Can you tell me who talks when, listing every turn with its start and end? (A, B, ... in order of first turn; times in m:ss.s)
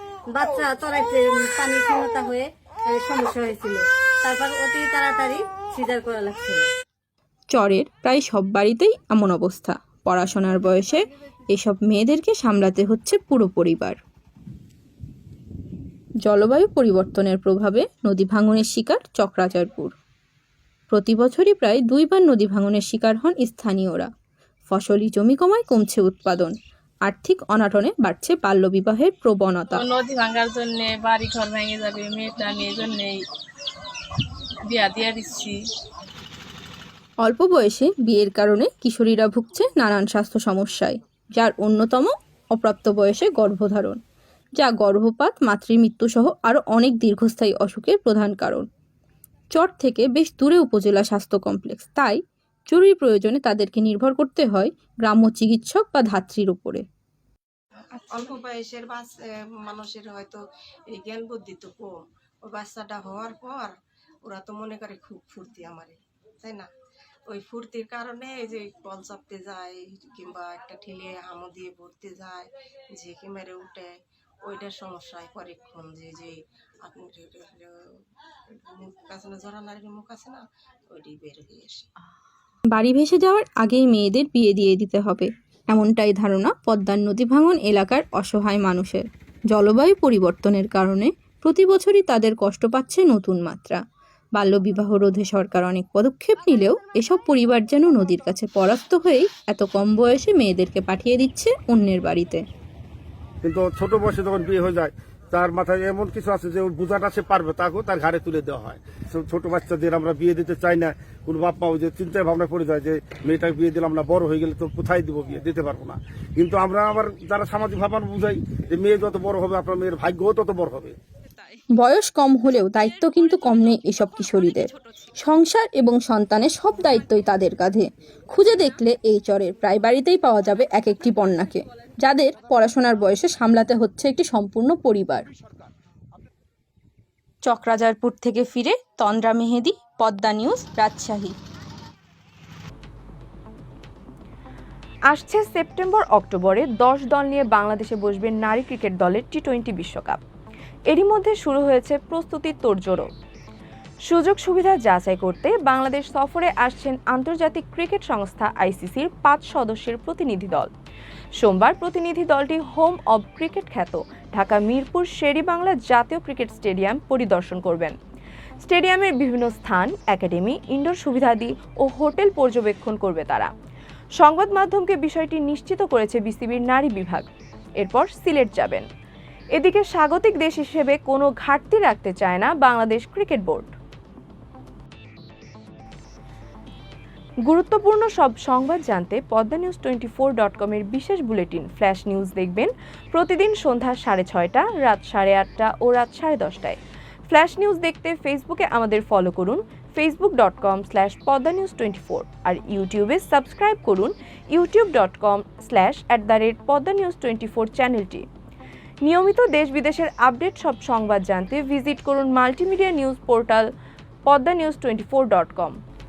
0:00.3-0:06.6 A
0:07.5-0:14.0 B
0:16.3-0:20.0 B
0:20.9-0:24.1 B
0:24.7-0:29.8 B
0:29.7-0:33.2 C
0:34.7-0:35.6 C
0:37.2-0:44.0 B
0:44.6-0:48.7 B
0:49.5-0:56.8 B
0:58.0-1:06.7 D
1:07.3-1:17.7 D
1:18.5-1:21.8 D
1:22.7-1:33.8 B
1:34.4-1:42.4 B
1:43.4-2:01.0 E
2:01.8-2:15.3 B
2:17.4-2:21.4 B
2:25.1-2:30.2 F
2:30.9-2:33.1 F
2:34.1-2:40.7 F
2:41.4-2:48.0 F
2:48.6-2:53.5 F
2:54.2-2:57.3 F
2:57.8-2:58.8 F
2:59.6-3:03.7 F
3:07.4-3:16.8 F
3:17.3-3:28.3 F
3:29.0-3:33.7 F
3:34.3-3:35.8 F